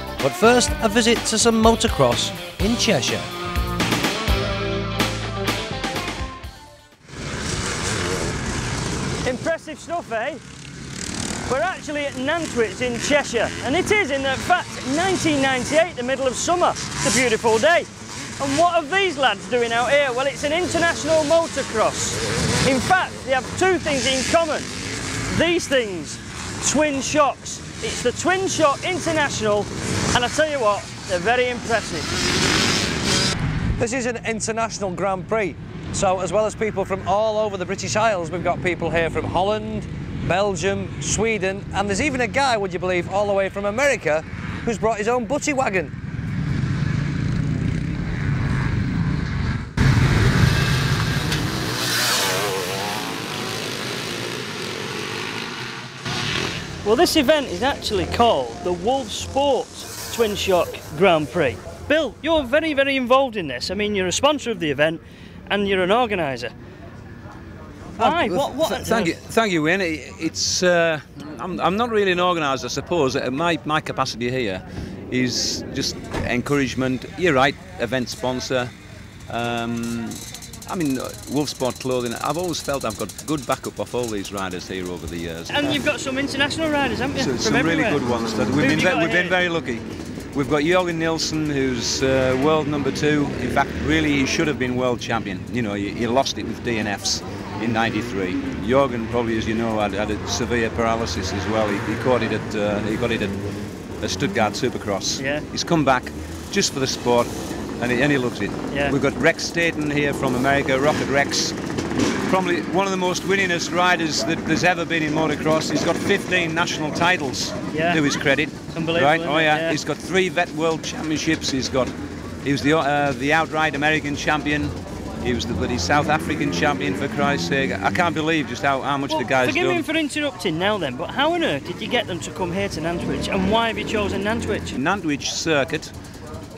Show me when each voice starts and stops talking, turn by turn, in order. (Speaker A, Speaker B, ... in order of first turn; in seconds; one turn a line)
Speaker A: 0.2-3.3
Speaker B: 9.2-10.4
Speaker B: 11.5-17.9
Speaker B: 18.4-24.7
Speaker B: 25.3-32.1
Speaker A: 33.8-45.9
Speaker B: 56.8-66.5
Speaker B: 68.0-69.2
Speaker C: 68.0-78.7
Speaker C: 79.3-85.8
Speaker B: 85.5-88.0
Speaker C: 87.2-103.4
Speaker B: 88.6-89.4
Speaker C: 104.0-111.6
Speaker B: 105.2-105.5
Speaker B: 108.7-109.0
Speaker C: 112.3-121.9
Speaker B: 117.7-118.0
Speaker B: 118.7-119.8
Speaker C: 122.4-129.9
Speaker B: 129.1-134.8
Speaker C: 134.7-135.9